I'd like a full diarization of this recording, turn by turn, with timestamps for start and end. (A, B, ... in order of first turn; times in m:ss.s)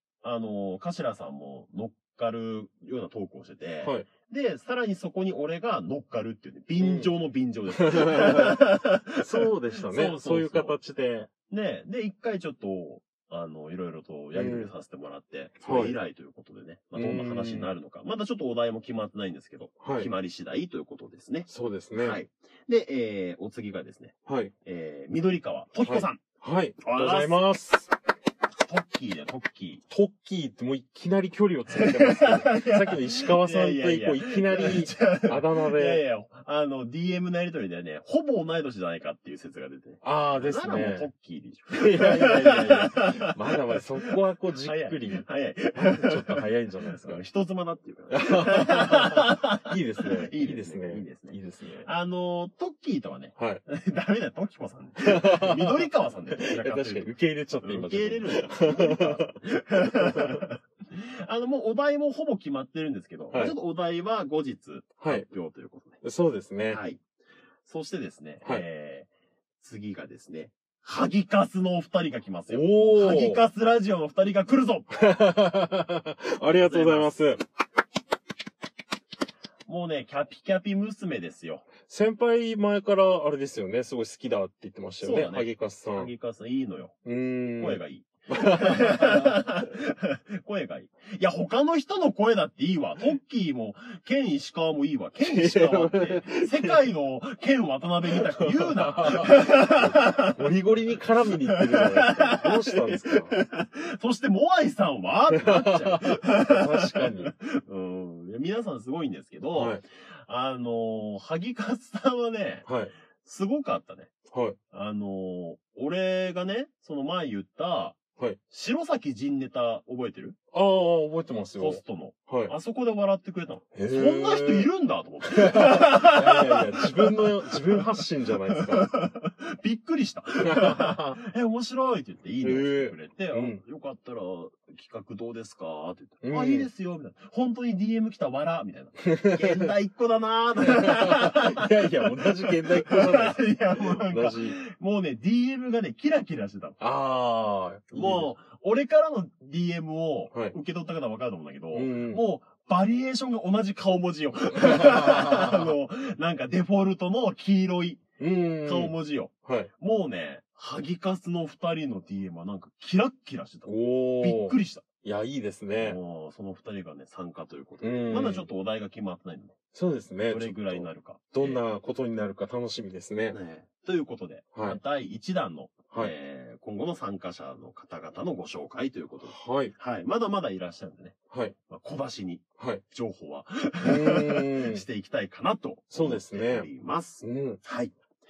0:00.2-0:10.8 A
0:06.8-0:07.1 B
0:07.8-0:08.6 B
0:09.2-0:11.3 B
0:11.5-0:26.2 A
0:14.3-0:14.7 B
0:15.6-0:16.0 B
0:16.9-0:17.7 B
0:19.8-0:20.1 B
0:21.5-0:22.2 B
0:24.3-0:24.5 B
0:25.8-0:27.9 B
0:26.8-0:27.4 A
0:28.6-0:29.8 A
0:29.9-0:36.0 B
0:31.7-0:43.1 A
0:40.0-0:41.1 B
0:41.7-0:47.2 B
0:44.1-1:06.0 A
0:48.1-0:51.9 B
0:53.4-0:53.6 B
0:55.0-1:00.4 B
1:05.0-1:05.2 B
1:06.0-1:06.8 B
1:06.7-1:07.0 A
1:07.6-1:09.1 A
1:09.6-1:14.9 A
1:12.5-1:13.4 B
1:15.0-1:17.4 B
1:16.4-1:17.2 A
1:19.7-1:21.7 A
1:21.9-1:26.1 B
1:25.0-1:27.0 A
1:27.0-1:29.3 B
1:27.6-1:40.4 A
1:35.2-1:36.8 B
1:38.1-1:43.3 B
1:41.5-1:52.7 A
1:45.3-1:47.3 B
1:49.5-1:49.8 B
1:52.6-1:52.9 B
1:53.2-1:54.1 A
1:54.3-1:54.6 B
1:54.7-2:00.4 A
2:00.5-2:02.5 B
2:01.6-2:26.8 A
2:03.8-2:04.7 B
2:05.3-2:08.9 B
2:10.4-2:11.2 B
2:12.4-2:13.6 B
2:16.2-2:16.7 B
2:19.0-2:19.7 B
2:20.7-2:24.6 B
2:26.8-2:28.3 B
2:27.9-2:38.0 A
2:31.7-2:32.2 B
2:34.5-2:35.7 B
2:38.2-2:38.9 B
2:38.6-2:44.8 A
2:43.6-2:46.0 B
2:45.8-2:49.5 A
2:47.8-2:48.5 B
2:49.7-2:53.4 B
2:50.3-2:51.6 A
2:53.3-3:07.9 A
2:59.2-2:59.7 B
3:03.8-3:04.8 B
3:05.9-3:06.7 B
3:07.2-3:07.6 B